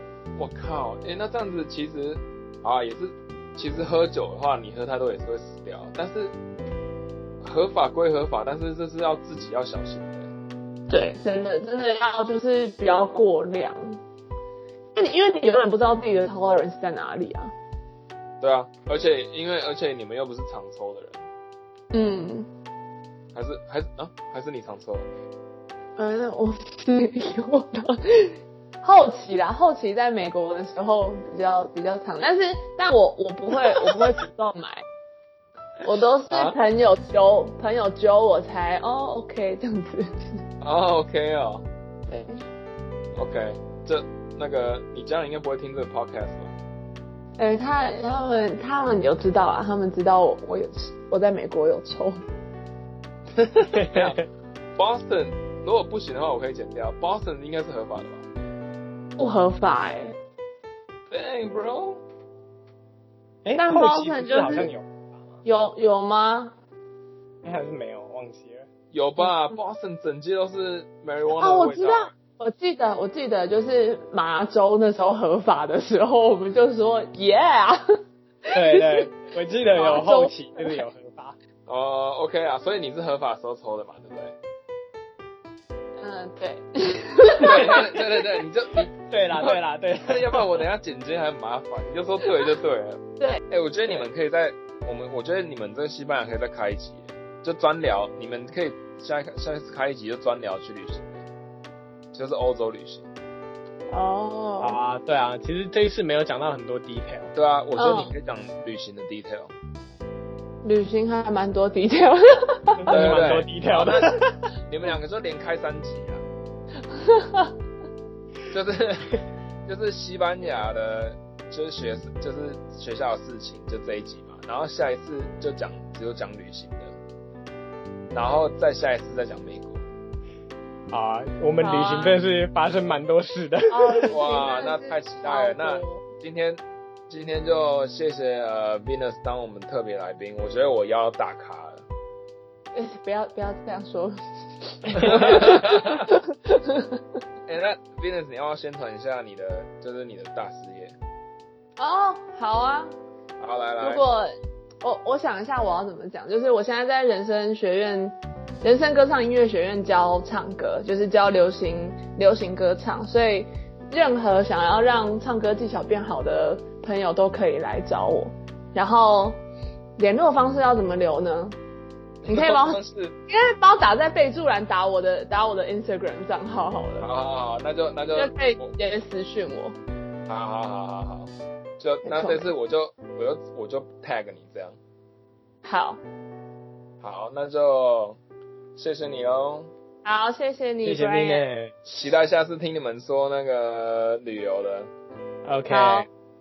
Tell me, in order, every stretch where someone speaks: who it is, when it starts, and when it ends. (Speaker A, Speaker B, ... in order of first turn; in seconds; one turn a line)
Speaker A: 0.4-6.3
Speaker A: 7.4-10.3
Speaker B: 10.9-14.0
Speaker B: 14.9-17.5
Speaker A: 18.4-21.2
Speaker B: 21.9-22.5
Speaker A: 23.3-25.1
Speaker B: 26.0-34.9
Speaker B: 35.8-40.4
Speaker A: 36.3-36.6
Speaker A: 40.6-41.6
Speaker B: 42.1-42.4
Speaker A: 43.1-46.5
Speaker B: 47.4-52.2
Speaker A: 53.3-54.2
Speaker C: 53.7-54.2
Speaker A: 54.8-58.3
Speaker B: 59.2-60.2
Speaker A: 61.1-62.0
Speaker C: 63.4-65.4
Speaker B: 63.6-64.7
Speaker B: 65.4-66.5
Speaker C: 67.4-68.7
Speaker A: 68.9-72.1
Speaker B: 71.4-77.8
Speaker B: 78.5-79.1
Speaker C: 78.5-81.4
Speaker B: 79.8-80.8
Speaker A: 81.7-84.3
Speaker B: 86.0-87.8
Speaker A: 87.4-101.2
Speaker C: 89.1-90.6
Speaker A: 102.1-103.1
Speaker B: 103.9-104.8
Speaker C: 104.6-107.3
Speaker A: 107.3-109.5
Speaker B: 107.8-108.1
Speaker B: 110.6-113.0
Speaker C: 112.8-114.3
Speaker A: 112.9-116.2
Speaker B: 117.0-117.5
Speaker A: 118.5-126.9
Speaker A: 128.1-129.8
Speaker C: 130.9-134.2
Speaker B: 131.6-132.2
Speaker B: 133.7-136.0
Speaker A: 134.1-141.8
Speaker B: 142.7-147.0
Speaker C: 144.9-145.5
Speaker A: 145.0-146.1
Speaker A: 147.5-151.0
Speaker B: 151.8-153.0
Speaker A: 153.4-154.1
Speaker B: 153.8-154.3
Speaker B: 154.8-169.4
Speaker B: 170.0-171.6
Speaker A: 172.2-173.1
Speaker B: 172.3-177.1
Speaker A: 177.0-178.7
Speaker B: 178.2-179.8
Speaker A: 180.3-184.8
Speaker B: 182.1-182.5
Speaker B: 185.6-186.0
Speaker A: 187.0-188.2
Speaker A: 188.8-189.7
Speaker B: 190.0-191.4
Speaker C: 190.8-191.7
Speaker A: 191.8-194.9
Speaker C: 195.4-196.1
Speaker B: 195.7-196.1